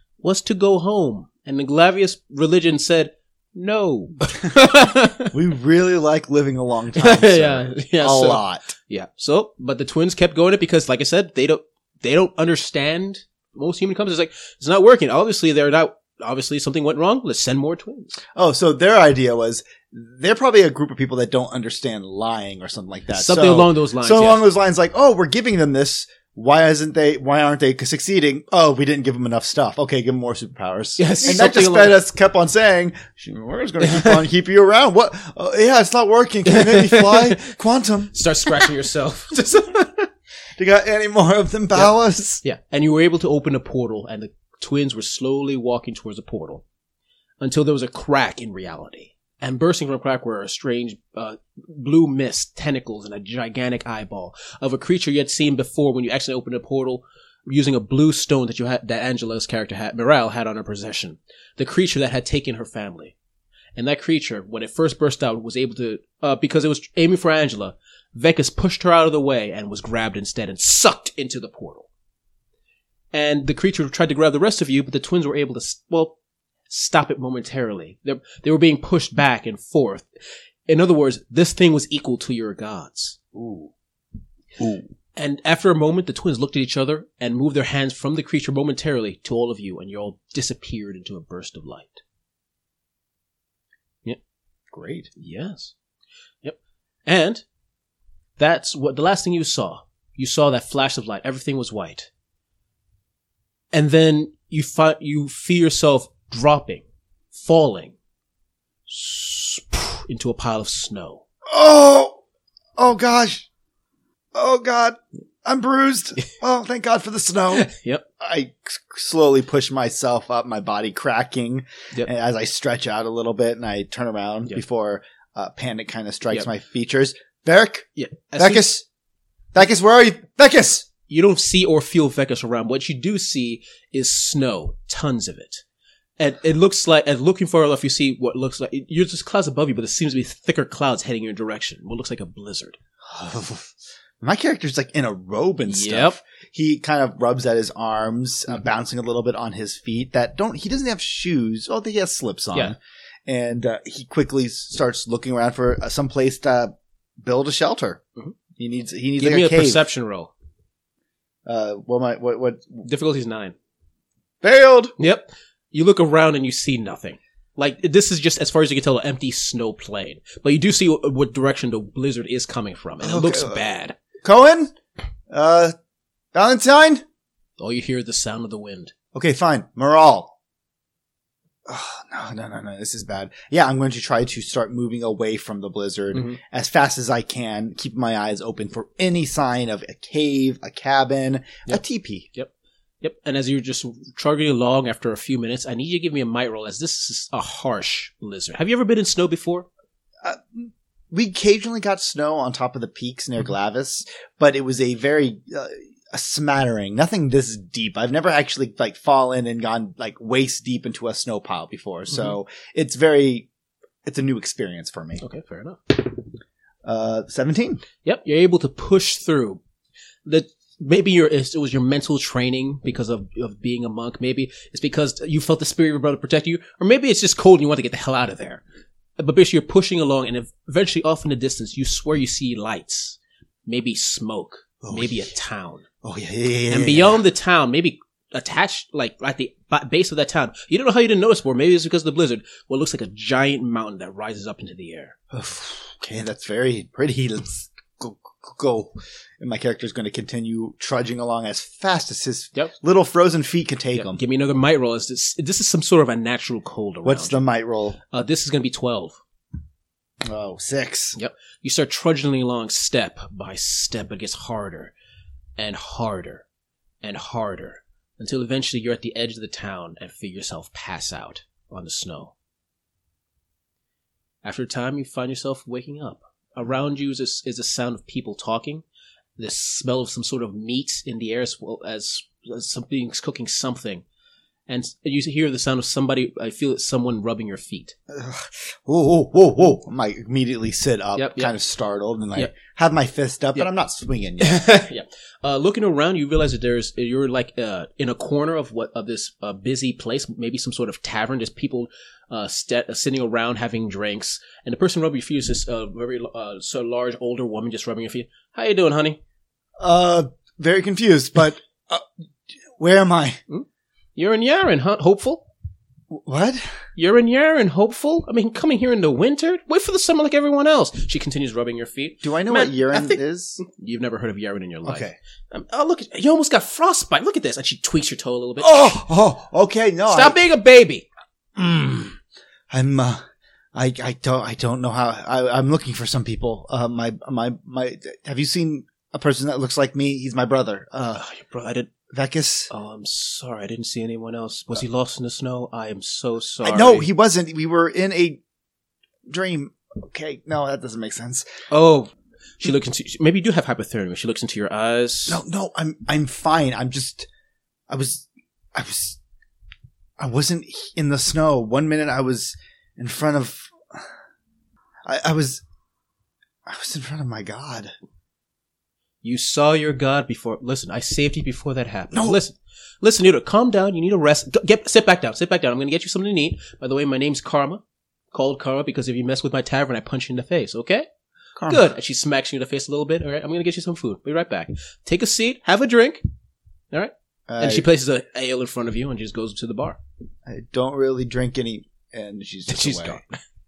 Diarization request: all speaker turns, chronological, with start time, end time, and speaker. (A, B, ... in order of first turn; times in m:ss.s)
0:00.2-0:05.3 A
0:05.3-0:08.7 B
0:06.9-0:18.2 A
0:18.3-0:38.1 B
0:23.1-0:24.4 A
0:31.0-0:32.0 A
0:33.8-0:34.2 A
0:36.5-0:37.5 A
0:38.1-0:40.0 A
0:40.6-0:42.4 B
0:41.8-0:46.6 A
0:47.4-1:03.2 A
1:03.8-1:11.9 A
1:13.1-1:16.2 A
1:16.7-1:20.1 A
1:20.7-1:23.2 A
1:23.3-1:23.7 B
1:24.6-1:24.9 B
1:25.2-1:32.0 A
1:34.7-1:35.1 B
1:35.2-1:35.7 A
1:36.4-1:37.4 A
1:38.4-1:42.1 A
1:43.7-1:47.9 A
1:48.9-1:51.2 A
1:51.5-1:52.2 B
1:52.8-1:53.5 B
1:54.3-1:57.7 B
1:57.5-1:58.0 A
1:58.2-2:08.8 B
2:08.0-2:08.7 A
2:09.5-2:10.9 B
2:11.1-2:15.6 A
2:16.2-2:22.8 A
2:23.0-2:38.0 B
2:25.7-2:26.2 A
2:38.6-2:39.8 B
2:39.2-2:40.3 A
2:41.4-2:42.9 B
2:42.8-2:43.6 A
2:44.4-2:44.9 B
2:45.0-2:54.0 A
2:53.0-2:53.6 B
2:54.2-2:54.7 B
2:55.3-2:55.7 B
2:56.3-2:57.0 B
2:57.6-2:58.9 A
2:59.1-3:00.3 B
3:01.6-3:12.3 B
3:06.1-3:06.4 A
3:13.0-3:19.7 A
3:20.2-3:33.5 B
3:34.0-3:35.2 B
3:35.2-3:35.9 A
3:36.8-3:37.8 B
3:38.0-3:39.6 A
3:40.2-3:48.6 A
3:49.2-3:55.8 A
3:54.8-3:55.3 B
3:56.0-3:57.2 B
3:56.7-4:05.2 A
4:05.3-4:14.2 B
4:13.9-4:17.4 A
4:17.0-4:18.0 B
4:18.1-4:19.2 A
4:20.2-4:21.2 B
4:21.1-4:24.9 A
4:25.6-4:26.4 A
4:27.0-4:32.3 A
4:34.4-4:38.8 A
4:39.4-4:44.0 A
4:44.7-4:48.0 A
4:48.1-4:54.8 B
4:51.2-4:51.5 A
4:54.4-5:09.2 A
5:09.8-5:12.0 B
5:12.8-5:13.4 B
5:13.5-5:15.4 A
5:16.1-5:16.8 B
5:17.0-5:29.0 A
5:22.2-5:23.6 B
5:24.8-5:25.1 B
5:28.6-5:30.4 B
5:30.1-5:31.0 A
5:31.6-5:32.2 B
5:32.7-5:33.2 B
5:33.7-5:41.2 B
5:41.2-5:41.9 A
5:42.1-5:42.7 B
5:42.7-5:47.1 A
5:46.6-5:48.4 B
5:49.3-5:51.5 B
5:51.7-5:55.4 A
5:55.3-5:57.3 B
5:57.9-5:59.2 B
6:00.2-6:04.1 B
6:05.0-6:05.6 B
6:06.6-6:07.9 B
6:09.2-6:21.1 A
6:12.1-6:12.4 B
6:21.6-6:21.8 B
6:21.6-6:26.2 A
6:26.9-6:30.0 A
6:27.5-6:27.8 B
6:30.4-6:33.2 B
6:32.7-6:33.4 A